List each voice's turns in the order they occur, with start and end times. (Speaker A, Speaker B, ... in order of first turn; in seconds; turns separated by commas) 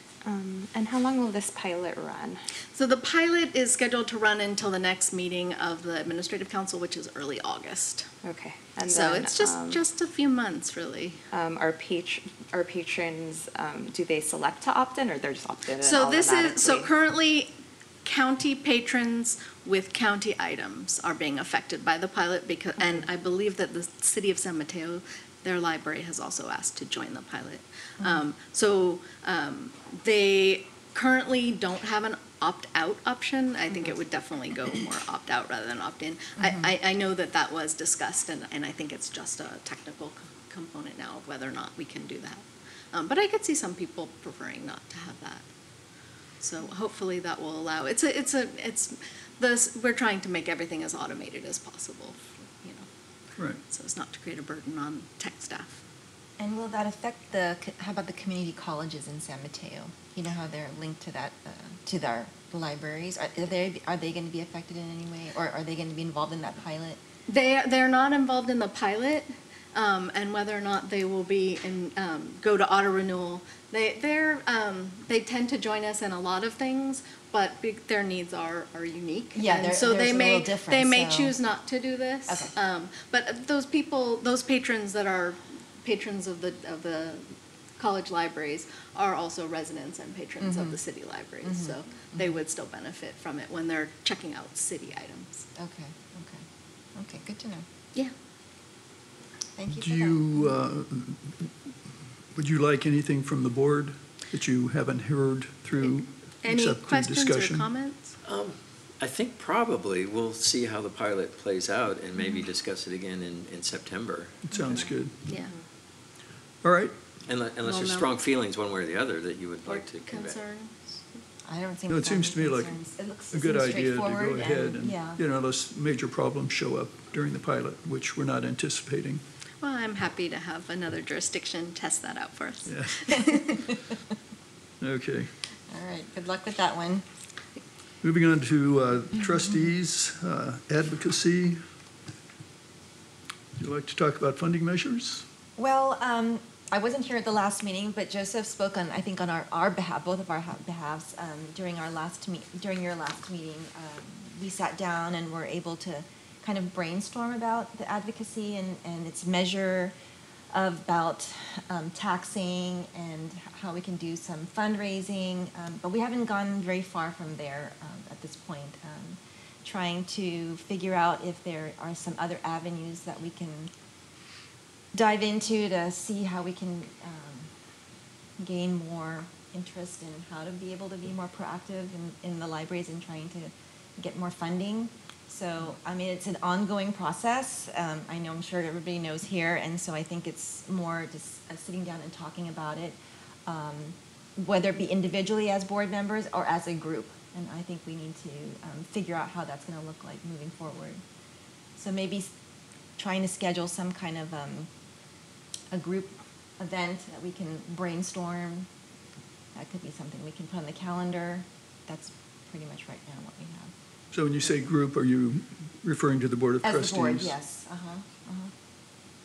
Speaker A: 0.2-2.4, Speaker B: 2.7-8.1, Speaker A: 8.2-9.8, Speaker B: 8.9-11.2, Speaker A: 11.3-16.9, Speaker B: 15.8-17.5, Speaker B: 18.1-45.4, Speaker C: 36.4-36.7, Speaker B: 46.4-52.9, Speaker B: 53.6-55.8, Speaker C: 56.4-67.0, Speaker B: 67.3-95.4, Speaker C: 79.3-81.3, Speaker C: 90.4-90.8, Speaker C: 91.4-92.4, Speaker C: 95.6-96.4, Speaker C: 97.0-97.7, Speaker C: 99.6-100.6, Speaker D: 99.7-101.5, Speaker D: 102.3-107.7, Speaker B: 105.8-108.2, Speaker E: 108.2-114.4, Speaker D: 114.5-115.3, Speaker B: 115.3-115.5, Speaker D: 116.6-116.9, Speaker E: 117.3-120.4, Speaker B: 117.7-118.1, Speaker B: 119.7-121.0, Speaker C: 121.5-125.2, Speaker D: 121.9-122.8, Speaker D: 123.3-129.2, Speaker B: 129.6-133.5, Speaker D: 132.7-133.1, Speaker C: 133.3-133.8, Speaker D: 134.8-135.3, Speaker C: 135.7-137.0, Speaker D: 138.0-141.6, Speaker C: 139.3-139.5, Speaker D: 143.6-145.2, Speaker C: 145.6-159.9, Speaker C: 160.5-173.7, Speaker C: 174.9-177.5, Speaker C: 178.4-201.0, Speaker C: 201.8-202.3, Speaker C: 203.0-204.7, Speaker C: 205.7-208.7, Speaker C: 209.6-213.7, Speaker D: 214.1-217.3, Speaker C: 214.4-214.7, Speaker C: 216.6-218.5